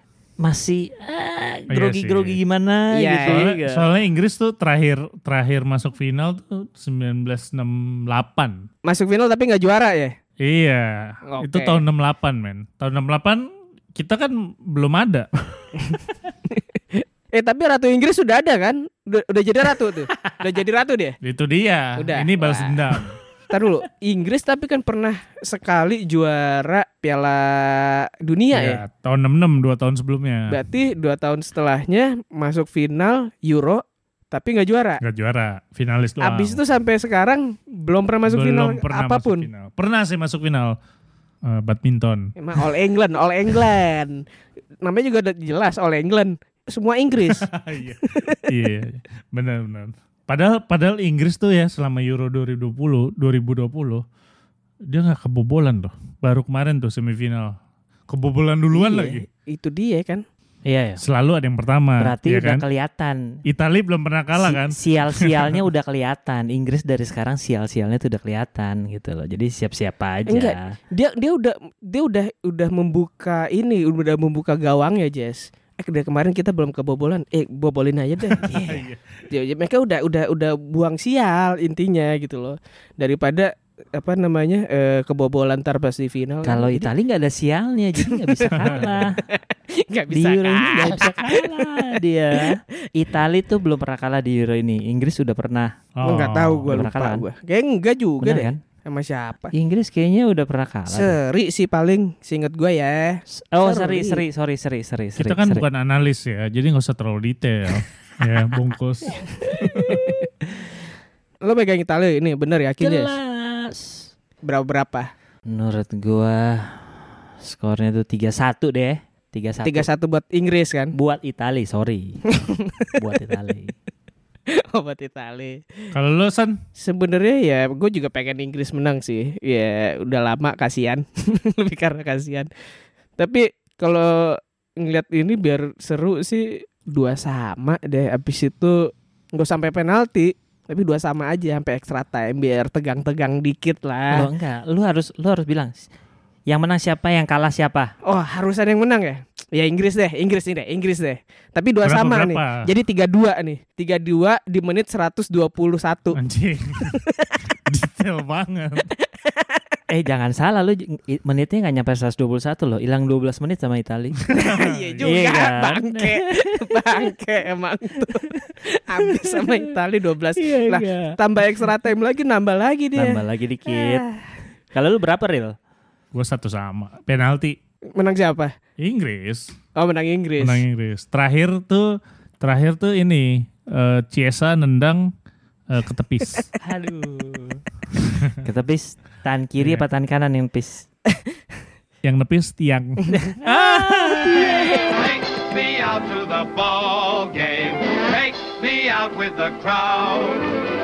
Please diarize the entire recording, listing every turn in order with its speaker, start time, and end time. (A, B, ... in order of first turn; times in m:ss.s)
0:00.4-0:03.9 A
0:01.7-0:02.4 B
0:02.9-0:03.5 C
0:03.3-0:08.6 B
0:08.8-0:10.2 C
0:10.4-0:15.3 B
0:11.3-0:11.8 C
0:16.5-0:21.2 C
0:21.2-0:23.2 B
0:22.0-0:23.0 C
0:23.5-0:28.8 C
0:28.5-0:30.6 B
0:30.5-0:35.0 C
0:35.0-0:36.6 B
0:36.2-0:39.5 C
0:38.2-0:40.7 B
0:41.4-0:42.6 B
0:42.4-0:44.2 C
0:44.8-0:47.5 C
0:47.3-0:54.0 B
0:48.0-0:48.4 C
0:54.9-0:57.5 B
0:58.1-0:59.2 B
0:58.7-1:00.2 C
1:00.6-1:01.0 A
1:01.0-1:02.6 B
1:02.0-1:03.2 A
1:03.5-1:05.6 B
1:04.3-1:10.7 A
1:10.3-1:18.6 C
1:18.4-1:18.8 A
1:18.5-1:19.0 B
1:19.3-1:26.9 C
1:26.4-1:29.2 A
1:28.0-1:32.5 C
1:28.5-1:28.9 B
1:30.1-1:35.7 A
1:36.0-1:36.7 B
1:36.0-1:39.5 C
1:36.7-1:37.2 A
1:38.2-1:38.6 A
1:39.5-1:41.2 A
1:40.9-1:44.2 C
1:43.3-1:45.6 A
1:45.2-1:50.0 B
1:49.8-1:50.2 C
1:51.4-1:53.1 C
1:52.8-1:54.1 A
1:54.4-1:55.1 C
1:55.5-1:59.9 A
1:59.6-2:00.9 C
2:00.9-2:02.2 A
2:02.3-2:03.0 C
2:03.0-2:03.7 A
2:04.6-2:05.6 C
2:05.9-2:06.6 B
2:06.8-2:12.5 C
2:13.2-2:24.3 C
2:24.1-2:25.9 A
2:26.5-2:27.9 A
2:28.0-2:36.2 C
2:31.8-2:32.7 B
2:36.1-2:37.0 B
2:36.9-2:37.3 C
2:37.7-2:38.9 B
2:39.2-2:39.6 C
2:39.9-2:44.2 A
2:44.3-2:54.3 C
2:44.5-2:45.1 B
2:45.0-2:47.1 A
2:48.0-2:49.7 A
2:50.4-2:51.1 A
2:52.9-2:54.0 A
2:54.7-2:55.6 A
2:56.1-2:57.6 B
2:58.0-2:58.5 C
2:58.8-2:59.5 B
2:59.8-3:00.6 C
3:00.4-3:05.0 B
3:05.7-3:06.5 B
3:06.6-3:07.6 A
3:08.4-3:10.9 A
3:09.6-3:09.8 B
3:12.0-3:14.6 B
3:13.4-3:14.9 A
3:14.9-3:20.6 D